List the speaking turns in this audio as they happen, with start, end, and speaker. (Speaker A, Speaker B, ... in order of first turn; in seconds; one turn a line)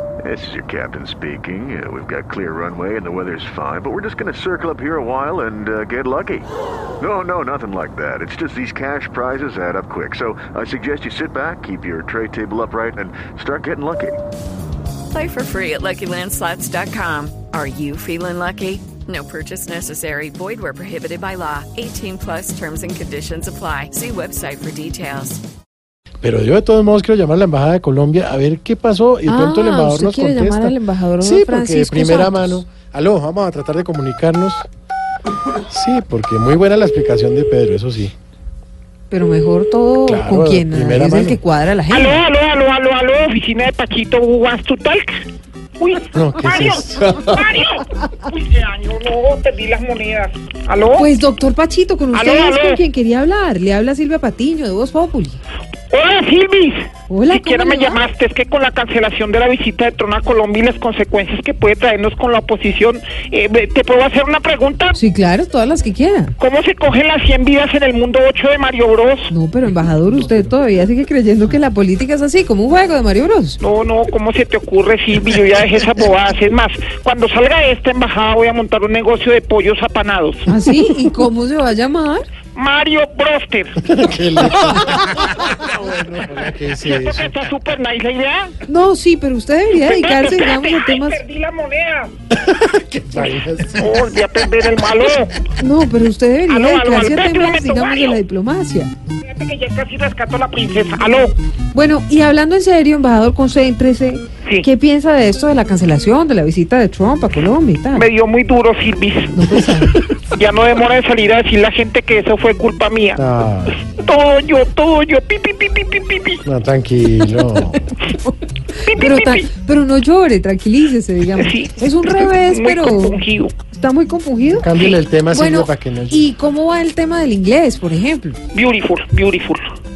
Speaker A: 0.2-6.5
Speaker A: 7.0-14.2
Speaker B: 15.1-25.4
Speaker C: 26.2-34.7
Speaker D: 29.3-32.6
Speaker C: 35.7-38.1
Speaker D: 39.1-42.2
Speaker C: 40.1-41.4
Speaker E: 41.9-45.2
Speaker E: 45.8-51.1
Speaker C: 46.1-47.4
Speaker D: 51.0-55.4
Speaker E: 52.1-52.8
Speaker E: 55.9-65.0
Speaker D: 57.1-58.0
Speaker D: 64.9-66.3
Speaker E: 66.4-69.3
Speaker D: 69.3-73.6
Speaker E: 73.6-80.5
Speaker D: 80.5-82.2
Speaker E: 82.5-83.9
Speaker C: 83.8-87.3
Speaker E: 86.8-88.6
Speaker D: 88.7-91.2
Speaker E: 89.8-92.1
Speaker C: 92.3-94.0
Speaker E: 93.8-95.4
Speaker D: 95.5-98.9
Speaker E: 96.5-98.2
Speaker E: 99.2-101.4
Speaker D: 101.7-108.1
Speaker E: 107.9-109.5
Speaker D: 109.3-110.1
Speaker E: 110.3-113.2
Speaker C: 113.2-113.8
Speaker E: 113.8-116.4
Speaker C: 116.5-117.9
Speaker D: 117.5-118.3
Speaker E: 118.8-119.5
Speaker D: 118.9-128.4
Speaker E: 121.3-123.5
Speaker C: 124.5-126.3
Speaker E: 128.5-129.7